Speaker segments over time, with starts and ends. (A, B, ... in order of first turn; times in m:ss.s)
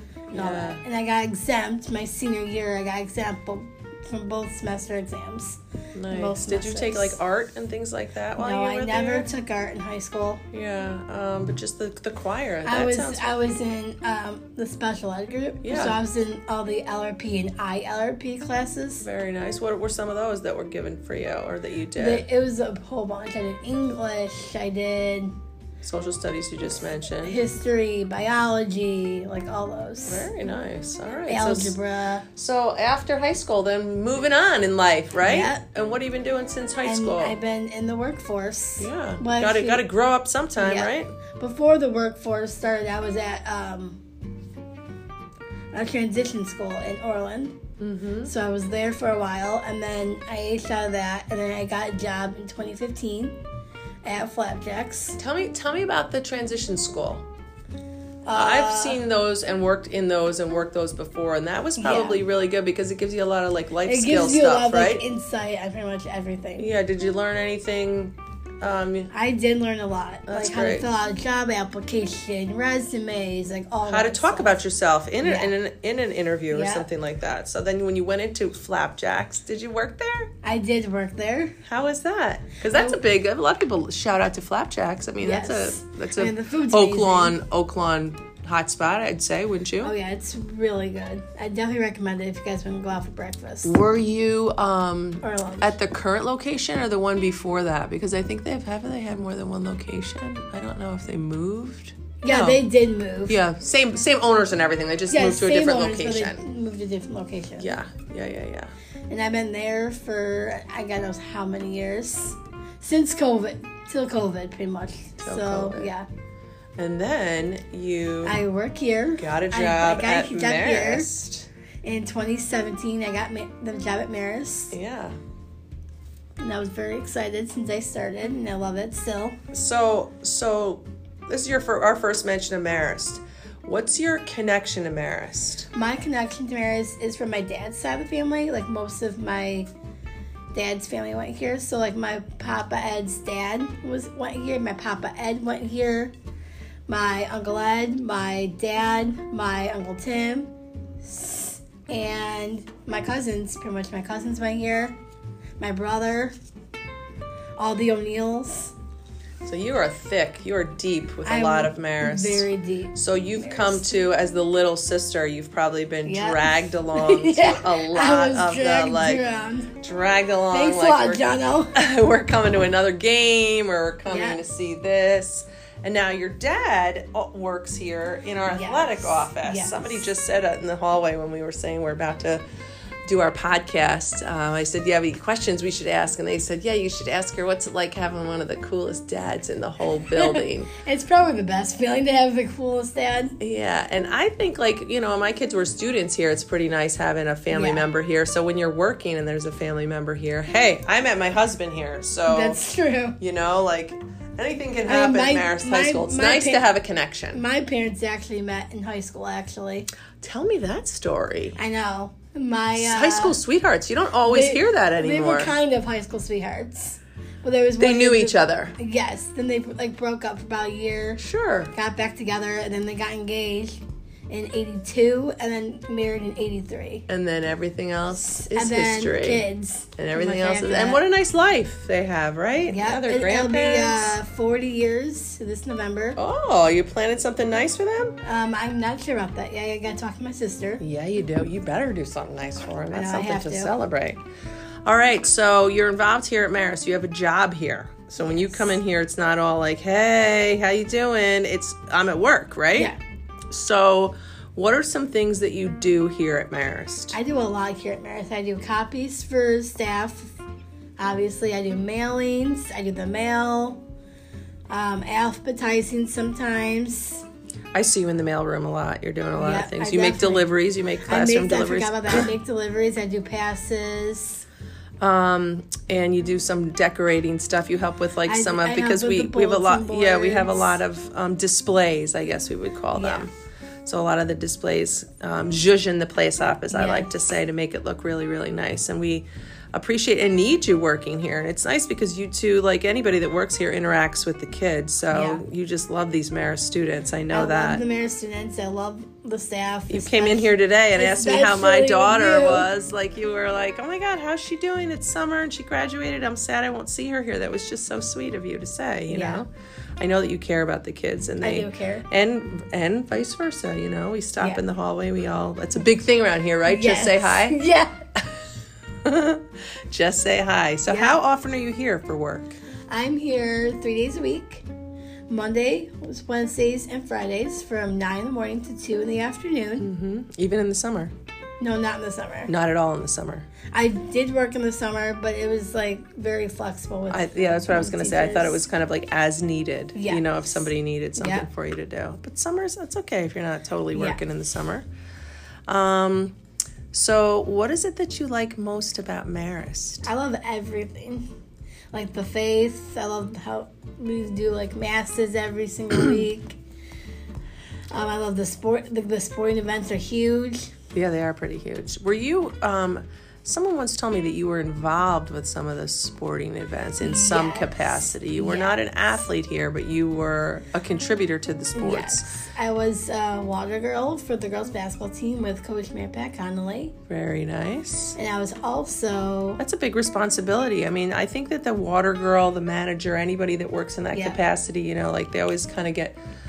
0:00.3-0:07.2 A
0:00.3-0:00.8 B
0:05.9-0:09.3 B
0:08.4-0:10.4 A
0:10.5-0:13.3 B
0:12.6-0:19.0 A
0:15.6-0:16.0 B
0:19.0-0:22.2 B
0:22.0-0:25.3 A
0:25.8-0:27.4 B
0:27.2-0:30.3 A
0:30.1-0:31.8 B
0:31.3-0:32.2 A
0:32.3-0:37.4 B
0:35.2-0:35.6 A
0:36.8-0:39.8 A
0:38.8-0:41.1 B
0:40.6-0:44.0 A
0:45.7-0:47.6 A
0:47.8-0:48.3 B
0:48.2-0:53.4 A
0:54.0-0:55.2 A
0:55.2-0:57.2 B
0:58.2-0:59.0 A
0:58.3-1:05.0 B
1:01.8-1:02.2 A
1:03.8-1:06.7 A
1:06.6-1:09.1 B
1:09.1-1:14.6 A
1:10.3-1:10.9 B
1:13.8-1:20.3 B
1:15.2-1:15.5 A
1:16.5-1:16.9 A
1:20.4-1:21.6 A
1:21.7-1:29.9 B
1:22.7-1:23.0 A
1:25.2-1:27.4 A
1:29.8-1:33.7 A
1:33.6-1:42.6 B
1:35.2-1:35.8 A
1:42.2-1:43.4 A
1:43.3-1:46.4 B
1:45.1-1:47.7 A
1:47.6-1:48.7 B
1:49.1-1:56.1 A
1:55.2-1:55.9 B
1:56.8-1:58.4 B
1:58.2-2:01.1 A
1:59.2-2:01.5 B
2:01.8-2:04.8 A
2:04.7-2:05.2 B
2:06.4-2:09.4 A
2:09.5-2:15.7 B
2:15.7-2:19.7 A
2:20.5-2:26.1 A
2:26.9-2:30.5 A
2:31.0-2:35.0 A
2:35.6-2:36.3 A
2:37.6-2:38.7 A
2:39.4-2:49.2 B
2:41.2-2:43.9 A
2:46.0-2:49.7 A
2:49.8-3:02.4 B
2:50.5-2:51.7 A
2:54.1-2:54.4 A
2:58.5-3:00.0 A
3:03.0-3:10.7 B
3:10.2-3:13.4 A
3:13.4-3:22.6 B
3:17.5-3:17.8 A
3:22.3-3:23.2 A
3:23.2-3:27.4 B
3:24.8-3:26.6 A
3:27.3-3:29.9 A
3:30.2-3:31.6 B
3:31.6-3:33.4 A
3:32.7-3:35.5 B
3:34.2-3:41.2 A
3:37.8-3:38.7 B
3:41.2-3:41.7 B
3:41.7-3:47.0 A
3:47.1-3:49.4 B
3:48.3-3:51.0 A
3:50.0-3:54.2 B
3:52.7-3:56.2 A
3:56.2-3:58.2 B
3:58.2-4:00.8 A
4:00.8-4:04.2 B
4:02.9-4:03.7 A
4:04.8-4:12.9 B
4:08.2-4:08.8 A
4:12.7-4:13.0 A
4:13.5-4:17.1 B
4:17.1-4:20.4 A
4:21.0-4:23.8 A
4:24.7-4:27.2 A
4:27.7-4:32.3 B
4:29.4-4:30.5 A
4:31.0-4:34.4 A
4:35.0-4:43.3 B
4:38.2-4:40.8 A
4:42.9-4:43.2 A
4:43.8-4:57.8 B
4:46.7-4:47.1 A
4:55.1-4:55.4 A
4:57.3-5:02.7 A
4:59.9-5:09.5 B
5:09.1-5:09.4 A
5:10.0-5:17.6 B
5:11.4-5:12.1 A
5:16.6-5:18.0 A
5:19.0-5:22.5 B
5:20.9-5:21.2 A
5:22.9-5:24.6 A
5:25.3-5:29.9 A
5:29.8-5:31.1 B
5:31.6-5:32.5 A
5:32.5-5:33.5 B
5:33.7-5:38.6 A
5:37.1-5:44.8 B
5:39.9-5:41.5 A
5:43.9-5:44.2 A
5:45.7-5:46.3 B
5:46.9-5:50.1 B
5:50.0-5:51.2 A
5:51.9-5:56.6 A
5:57.9-6:00.7 A
6:00.9-6:12.3 B
6:07.0-6:08.8 A
6:11.7-6:16.9 A
6:17.1-6:18.2 B
6:18.2-6:19.6 A
6:19.6-6:26.2 B
6:24.1-6:24.4 A